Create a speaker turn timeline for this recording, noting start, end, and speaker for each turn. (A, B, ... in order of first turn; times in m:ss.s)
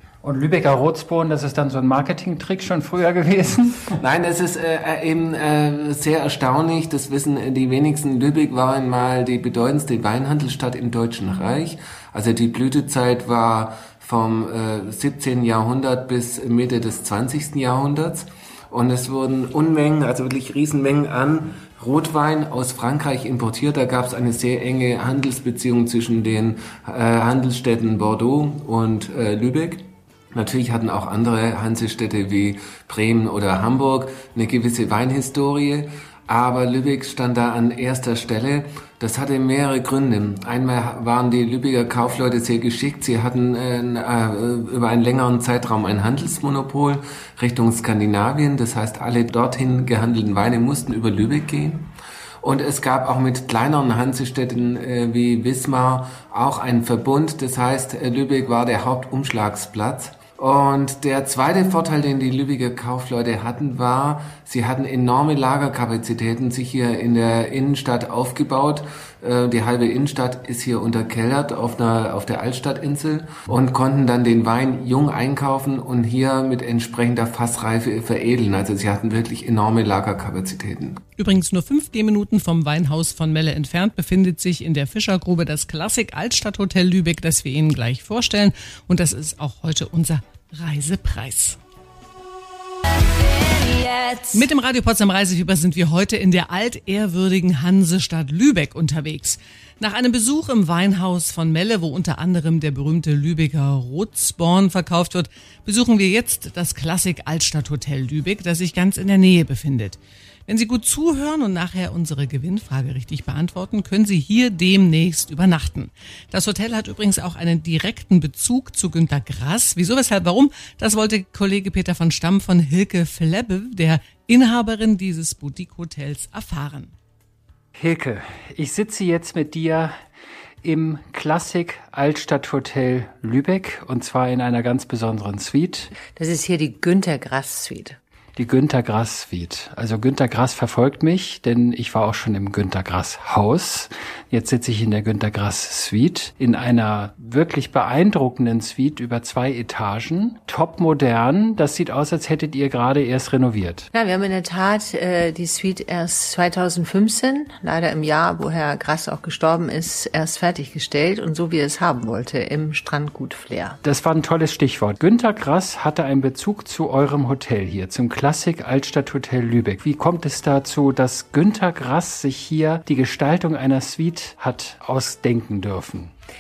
0:00.2-0:03.9 A
0:04.0-1:21.0 B
1:21.2-1:31.6 C
1:34.3-2:06.9 C
2:07.8-2:09.9 A
2:10.6-2:15.9 A
2:16.2-2:18.0 D
2:18.4-2:33.9 A
2:33.9-2:43.8 D
2:43.8-2:56.1 A